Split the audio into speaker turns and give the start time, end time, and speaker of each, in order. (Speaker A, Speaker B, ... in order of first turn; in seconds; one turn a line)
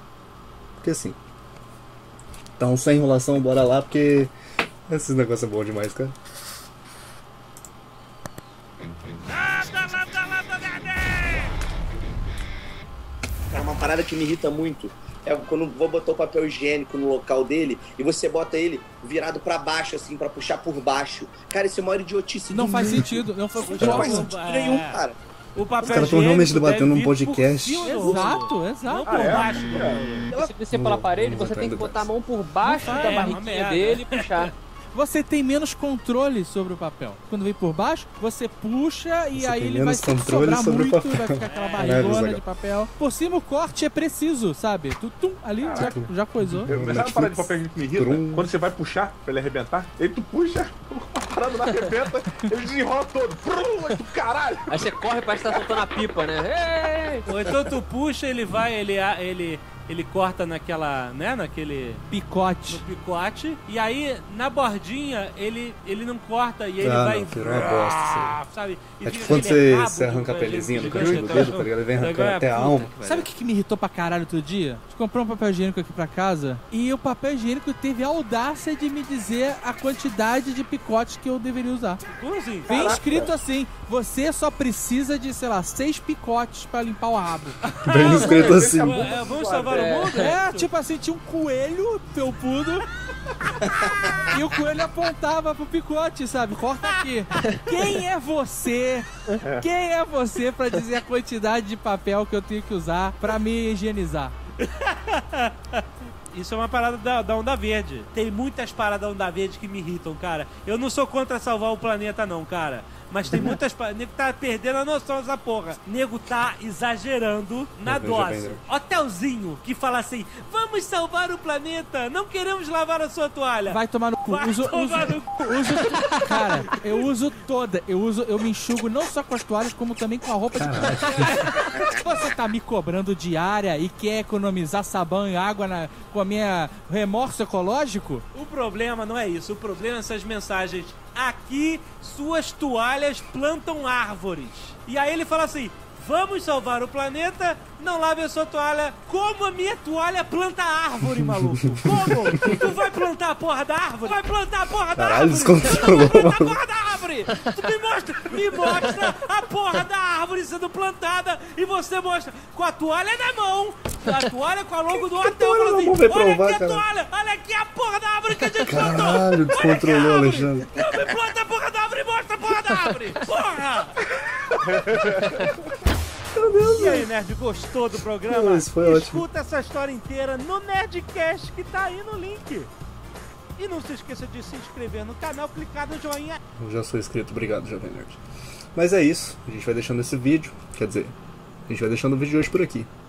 Speaker A: 0.8-1.2
Speaker A: 2.6-4.3
Speaker A: 4.9-6.1
Speaker B: 9.3-11.6
Speaker C: 13.5-23.2
Speaker D: 22.5-24.3
Speaker B: 23.6-25.0
Speaker C: 23.8-25.1
Speaker B: 25.6-30.3
Speaker A: 25.8-28.1
Speaker D: 27.8-29.2
Speaker E: 29.0-30.3
Speaker F: 30.4-34.5
Speaker A: 30.7-32.1
Speaker D: 32.6-33.4
Speaker B: 32.8-34.5
Speaker D: 34.9-46.7
Speaker A: 39.3-42.4
Speaker B: 41.4-42.2
Speaker E: 45.6-46.0
Speaker A: 45.8-48.5
Speaker E: 46.7-54.9
Speaker F: 54.7-57.3
Speaker B: 57.2-62.0
Speaker D: 62.1-62.8
Speaker B: 62.7-73.3
Speaker A: 66.8-68.4
Speaker A: 69.0-72.9
Speaker D: 73.0-82.0
Speaker B: 82.1-82.8
Speaker D: 82.7-87.6
Speaker C: 82.7-83.3
Speaker B: 87.7-90.7
Speaker A: 87.8-89.0
Speaker E: 88.1-90.0
Speaker F: 89.7-90.3
Speaker D: 90.1-92.8
Speaker D: 94.2-104.3
Speaker E: 99.4-99.7
Speaker B: 104.6-126.2
Speaker A: 113.3-113.6
Speaker A: 117.8-118.6
Speaker D: 123.7-138.2
Speaker A: 130.6-131.5
Speaker B: 131.1-131.5
Speaker B: 138.3-174.0
Speaker A: 151.2-152.6
Speaker A: 154.9-156.6
Speaker A: 165.1-166.8
Speaker A: 168.6-170.7
Speaker E: 174.7-175.4
Speaker A: 176.3-177.1
Speaker B: 176.7-182.7
Speaker A: 178.2-179.2
Speaker B: 183.6-186.4
Speaker A: 186.6-188.2
Speaker A: 188.7-191.1
Speaker A: 191.7-192.9